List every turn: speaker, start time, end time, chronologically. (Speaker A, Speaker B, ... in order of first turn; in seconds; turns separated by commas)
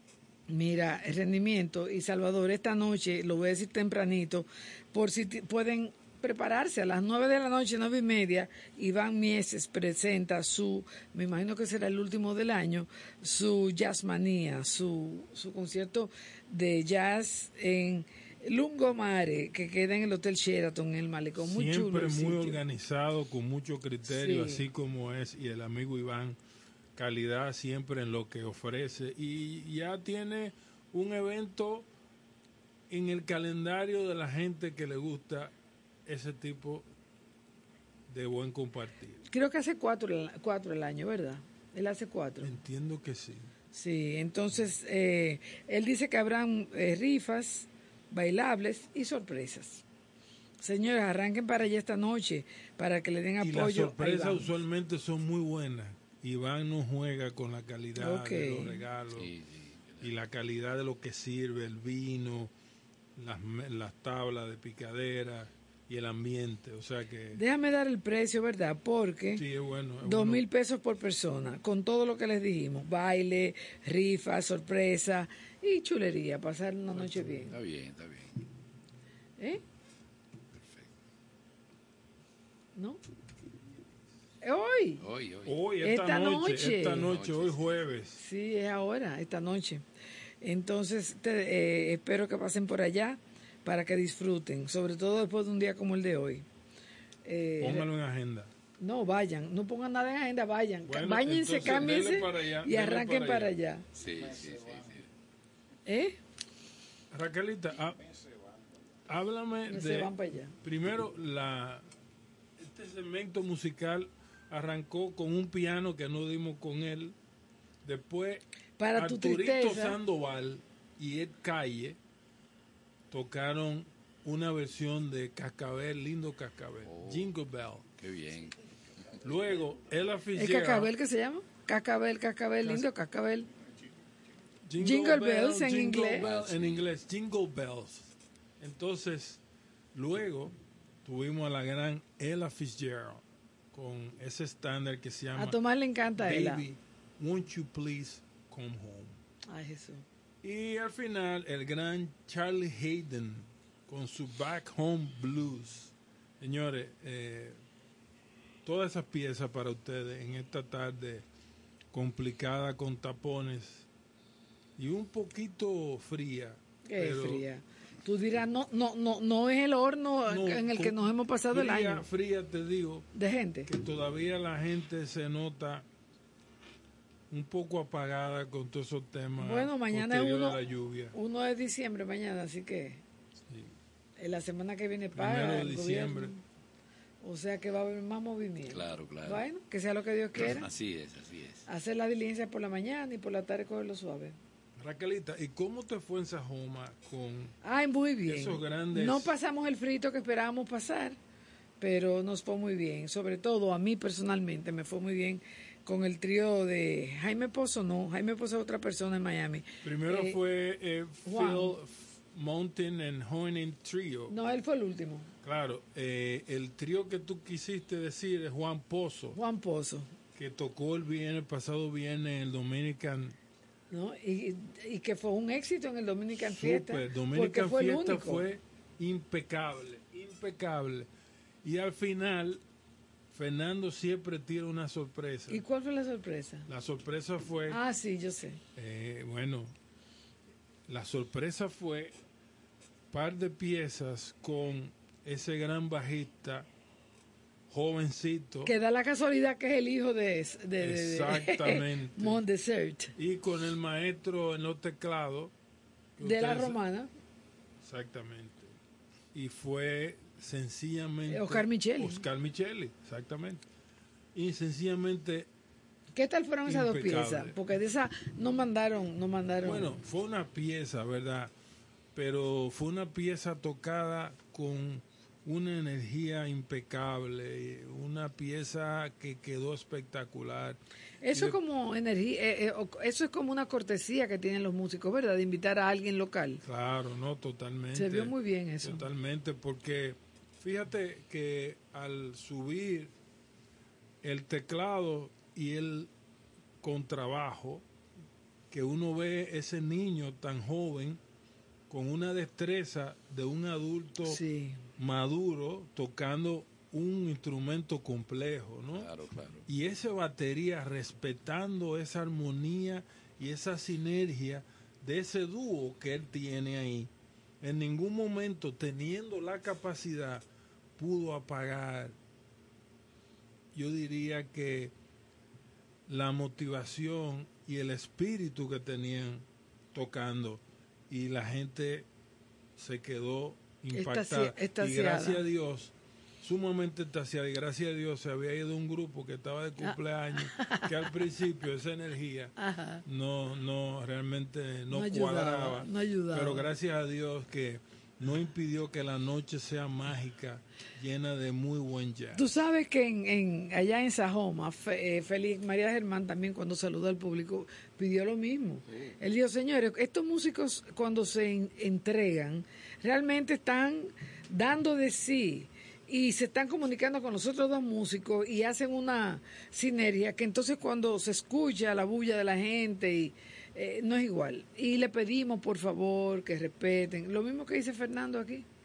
Speaker A: 0.5-22.6, Speaker B: 21.4-26.4, Speaker A: 24.1-24.6, Speaker B: 26.9-31.9, Speaker B: 32.9-35.5, Speaker B: 36.0-36.9, Speaker B: 38.1-39.2, Speaker A: 39.3-42.5, Speaker B: 42.4-43.5, Speaker A: 43.7-49.8, Speaker A: 50.6-54.5, Speaker B: 53.4-59.3, Speaker A: 58.0-58.8, Speaker C: 59.1-60.1, Speaker B: 60.0-62.5, Speaker B: 63.2-67.4, Speaker A: 67.3-69.4, Speaker B: 69.4-70.4, Speaker A: 70.0-77.5, Speaker C: 77.5-78.4, Speaker A: 79.4-79.6, Speaker C: 80.6-80.9, Speaker A: 82.7-83.0, Speaker A: 84.4-85.0, Speaker C: 85.0-85.7, Speaker B: 85.5-88.2, Speaker A: 85.8-87.1, Speaker C: 87.0-87.9, Speaker A: 88.2-89.8, Speaker A: 90.4-96.4, Speaker A: 97.2-97.9, Speaker B: 97.6-98.5, Speaker A: 98.8-103.8, Speaker B: 100.8-103.5, Speaker C: 103.9-105.1, Speaker A: 105.8-106.2, Speaker B: 107.1-108.0, Speaker B: 109.1-110.1, Speaker A: 109.7-110.5, Speaker B: 110.6-111.8, Speaker B: 112.6-117.1, Speaker B: 117.8-118.4, Speaker A: 118.8-120.0, Speaker B: 118.9-122.0, Speaker B: 123.1-127.8, Speaker C: 126.8-129.2, Speaker B: 129.2-130.9, Speaker A: 130.3-133.5, Speaker B: 134.7-139.4, Speaker A: 134.8-136.2, Speaker C: 136.2-136.9, Speaker B: 139.9-140.5, Speaker B: 141.0-145.6, Speaker A: 145.3-146.6, Speaker B: 146.2-149.2, Speaker A: 149.5-150.1, Speaker B: 150.4-157.6, Speaker B: 158.6-161.2, Speaker B: 161.9-163.9, Speaker B: 164.8-167.4, Speaker A: 166.9-172.0, Speaker B: 170.3-171.0, Speaker B: 171.5-173.1, Speaker A: 173.1-173.7, Speaker B: 173.7-175.8, Speaker B: 177.3-181.1, Speaker A: 179.4-180.6, Speaker A: 181.1-183.0, Speaker A: 184.2-186.4, Speaker B: 185.1-186.3, Speaker A: 187.2-190.7, Speaker C: 188.7-189.4, Speaker C: 190.3-191.6, Speaker A: 191.7-194.4, Speaker B: 194.8-197.5, Speaker A: 197.6-201.2, Speaker B: 198.3-199.3, Speaker A: 201.8-210.4, Speaker B: 209.8-214.3, Speaker A: 211.2-211.8, Speaker A: 214.3-215.3, Speaker B: 215.4-219.4, Speaker A: 219.3-220.1, Speaker B: 220.3-223.3, Speaker A: 223.9-228.4, Speaker B: 226.6-231.1, Speaker B: 231.6-232.6, Speaker B: 233.3-235.6, Speaker A: 235.5-236.7, Speaker B: 236.7-237.8, Speaker A: 237.7-238.6, Speaker B: 238.8-239.7, Speaker B: 240.9-242.1, Speaker B: 243.1-246.7, Speaker B: 247.7-248.7, Speaker A: 248.6-253.1, Speaker B: 250.8-252.4, Speaker B: 253.2-255.5, Speaker B: 256.2-256.8, Speaker A: 256.2-257.1, Speaker B: 257.8-258.7, Speaker B: 259.3-263.6, Speaker A: 261.3-262.2, Speaker B: 264.3-265.5, Speaker A: 266.1-269.9, Speaker B: 266.6-267.6, Speaker B: 269.6-271.5, Speaker B: 272.1-280.8, Speaker A: 281.2-286.6, Speaker B: 286.6-293.1, Speaker A: 287.9-289.1, Speaker B: 294.2-296.1, Speaker B: 296.8-297.8, Speaker B: 298.7-301.2, Speaker B: 301.9-304.4, Speaker A: 304.2-304.8, Speaker B: 305.0-309.1, Speaker C: 308.9-309.6, Speaker B: 309.7-317.1, Speaker B: 317.6-320.4, Speaker B: 321.0-322.1, Speaker B: 323.7-324.9, Speaker B: 326.1-332.1, Speaker B: 332.8-342.5, Speaker A: 333.9-335.4, Speaker A: 339.8-340.9, Speaker A: 342.6-343.0, Speaker B: 343.1-352.4, Speaker A: 344.9-346.7, Speaker A: 352.3-378.6, Speaker C: 358.9-359.2